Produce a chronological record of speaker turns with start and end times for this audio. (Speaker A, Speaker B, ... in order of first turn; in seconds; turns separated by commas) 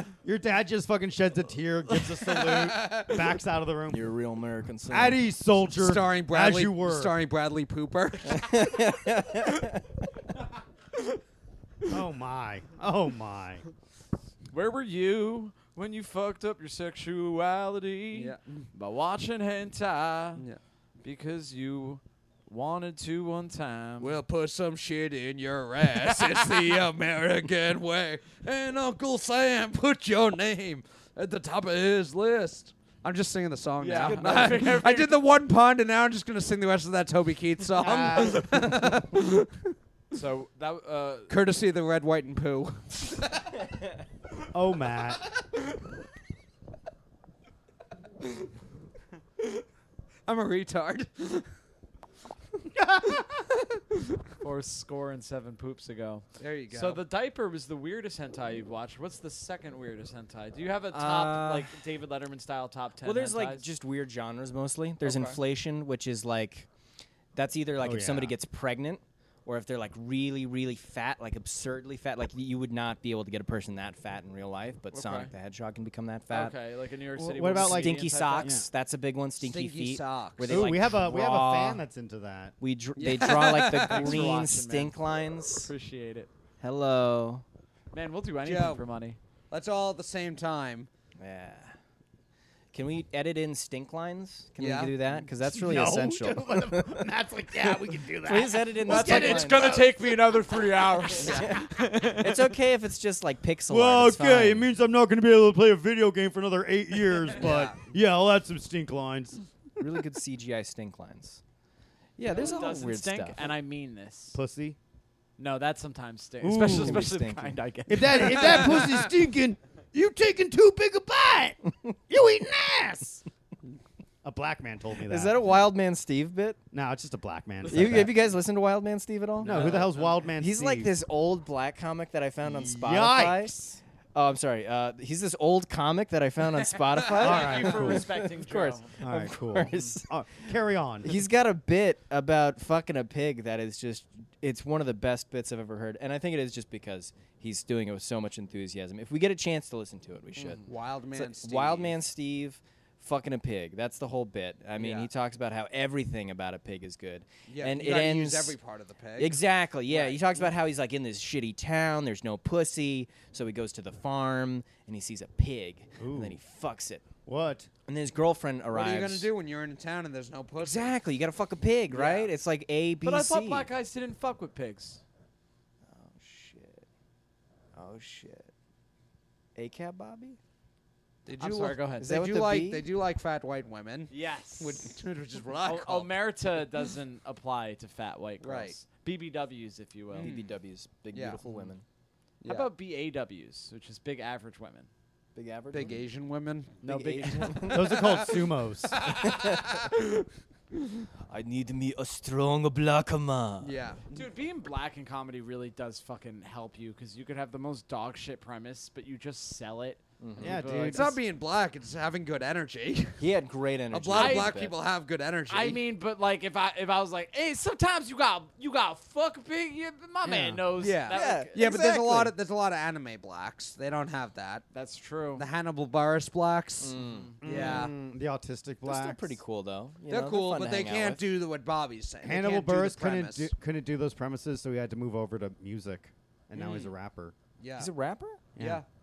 Speaker A: 0.2-4.0, Speaker B: 2.3-3.2, Speaker C: 3.9-5.2, Speaker A: 4.9-7.1, Speaker B: 5.8-8.8, Speaker C: 8.2-9.9, Speaker A: 11.9-13.6, Speaker D: 14.5-20.4, Speaker B: 18.1-18.6, Speaker D: 21.0-24.1, Speaker B: 24.0-39.7, Speaker D: 26.0-26.4, Speaker D: 33.8-35.2, Speaker C: 34.0-34.4, Speaker A: 37.8-38.9, Speaker D: 40.1-41.3, Speaker B: 41.3-43.6, Speaker A: 44.5-45.2, Speaker B: 50.3-51.5, Speaker A: 52.8-53.2, Speaker D: 54.4-63.6, Speaker B: 56.4-57.0, Speaker B: 60.9-61.7, Speaker C: 63.0-66.7, Speaker B: 65.0-65.4, Speaker C: 67.3-76.5, Speaker A: 67.8-68.3, Speaker D: 74.9-75.3, Speaker D: 76.3-78.6, Speaker A: 77.2-78.7, Speaker C: 77.5-81.8, Speaker B: 79.4-80.7, Speaker A: 80.5-82.5, Speaker C: 82.6-85.7, Speaker B: 83.0-84.4, Speaker D: 83.6-84.9, Speaker D: 85.6-86.3, Speaker C: 86.6-87.4, Speaker D: 87.9-89.2, Speaker B: 88.4-88.8, Speaker B: 89.5-90.9, Speaker C: 91.2-91.8, Speaker C: 92.7-97.0, Speaker B: 94.6-94.9, Speaker A: 95.4-100.5, Speaker C: 97.7-99.8, Speaker D: 98.8-102.6, Speaker B: 101.2-101.6, Speaker C: 101.2-104.7, Speaker A: 103.7-109.4, Speaker B: 107.4-107.8, Speaker C: 109.8-111.4, Speaker C: 112.2-113.5, Speaker D: 112.2-114.4, Speaker A: 114.3-114.8, Speaker D: 115.4-118.9, Speaker A: 116.4-117.0, Speaker C: 116.6-117.6, Speaker A: 117.9-123.2, Speaker A: 124.2-125.4, Speaker C: 125.0-126.6, Speaker A: 126.7-128.1, Speaker C: 127.7-133.5, Speaker A: 129.4-130.9, Speaker D: 129.4-130.2, Speaker A: 132.4-133.8, Speaker C: 134.1-140.1, Speaker D: 137.0-139.0, Speaker A: 137.2-138.1, Speaker A: 139.0-141.2, Speaker C: 141.0-158.6, Speaker B: 150.6-151.9, Speaker B: 154.8-155.1, Speaker B: 157.5-160.5, Speaker C: 159.2-167.0, Speaker A: 166.0-166.4, Speaker A: 167.2-167.7, Speaker C: 167.9-169.3, Speaker B: 168.7-170.9, Speaker C: 170.6-173.7, Speaker B: 171.9-172.3, Speaker D: 173.0-175.0, Speaker C: 175.8-176.8, Speaker C: 177.7-178.5, Speaker C: 179.5-180.4, Speaker B: 181.2-186.1, Speaker D: 181.4-182.1, Speaker C: 182.0-182.8, Speaker D: 184.1-184.9, Speaker D: 185.6-190.3, Speaker B: 188.4-188.8, Speaker C: 190.1-191.8, Speaker B: 190.1-190.5, Speaker B: 191.1-191.4, Speaker B: 192.4-192.7, Speaker D: 192.4-194.9, Speaker C: 195.3-196.0, Speaker B: 195.7-196.8, Speaker D: 196.8-197.9, Speaker C: 196.8-198.0, Speaker B: 197.3-198.3, Speaker A: 197.7-199.0, Speaker B: 198.9-199.9, Speaker C: 199.0-199.8, Speaker C: 201.2-203.7, Speaker B: 203.6-204.2, Speaker D: 204.1-211.2, Speaker C: 210.2-210.6, Speaker A: 210.4-211.1, Speaker B: 210.9-213.2, Speaker C: 213.2-214.7, Speaker B: 213.9-215.8, Speaker D: 214.1-214.6, Speaker D: 215.5-221.9, Speaker A: 220.2-220.6, Speaker B: 220.8-224.6, Speaker C: 221.1-222.3, Speaker D: 224.7-225.4, Speaker B: 225.3-227.9, Speaker C: 226.8-227.8, Speaker D: 227.0-227.3, Speaker A: 227.4-229.4, Speaker C: 228.8-231.2, Speaker B: 230.1-233.5, Speaker A: 232.2-237.3, Speaker C: 236.6-236.8, Speaker B: 237.6-237.9, Speaker C: 237.8-238.4, Speaker A: 238.6-238.8, Speaker B: 238.6-238.8